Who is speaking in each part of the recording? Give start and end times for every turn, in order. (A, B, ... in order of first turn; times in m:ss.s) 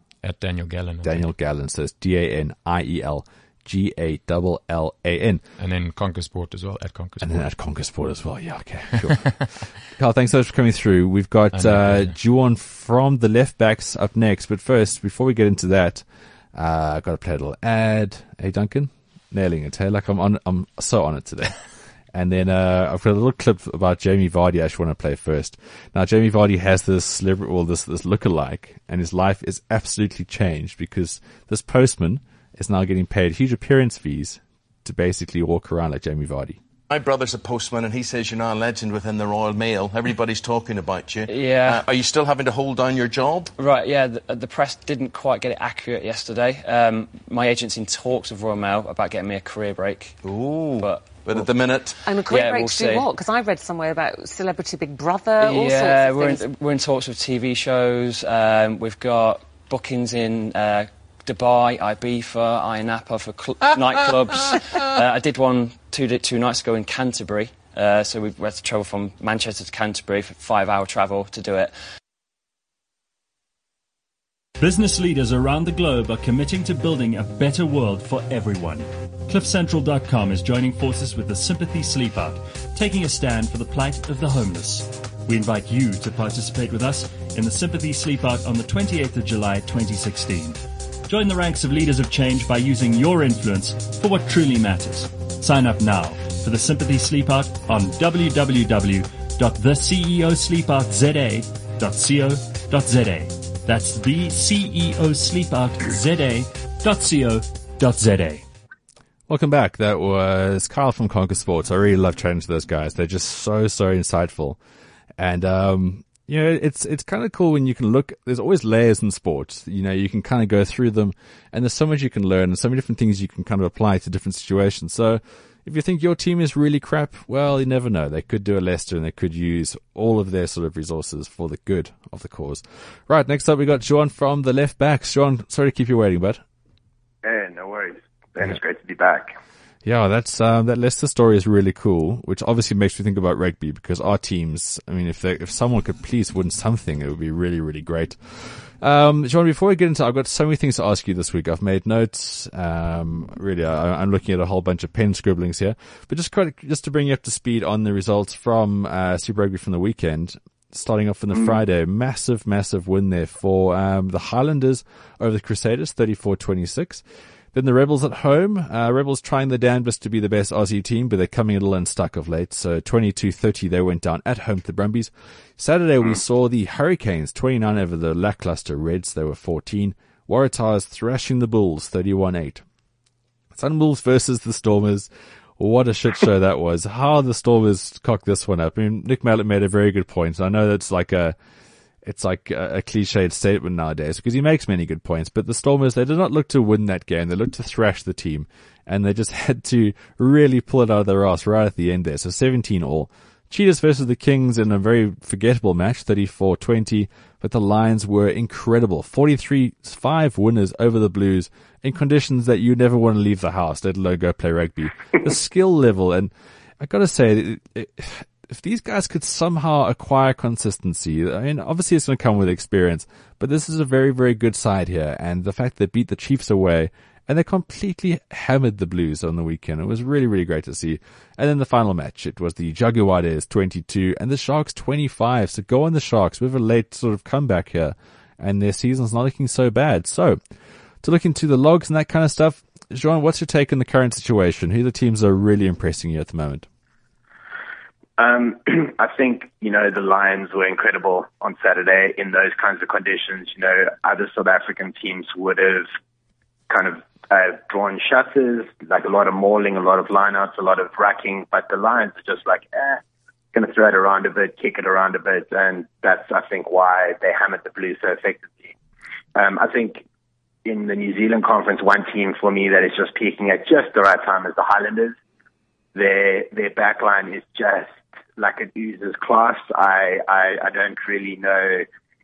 0:00.2-0:01.3 A
0:01.0-0:05.4 B
0:05.6-0:07.5 A
0:07.2-0:36.6 B
0:11.5-0:12.2 A
0:36.9-0:43.5 C
0:41.3-0:41.8 D
0:43.6-0:50.2 D
0:50.2-0:52.2 C
0:50.8-0:51.5 D
0:52.0-0:56.4 E
0:52.2-0:53.2 D
0:55.4-1:11.7 D
1:14.6-1:48.4 F
1:49.3-1:54.6 B
1:55.2-2:16.4 B
2:17.2-2:19.4 G
2:19.8-3:02.6 B
3:03.5-3:11.4 B
3:12.0-4:00.4 B
4:01.0-4:06.6 B
4:08.2-4:15.9 G
4:16.7-4:23.0 G
4:23.5-4:28.7 G
4:29.3-4:30.0 G
4:30.6-4:35.2 G
4:35.9-4:41.8 G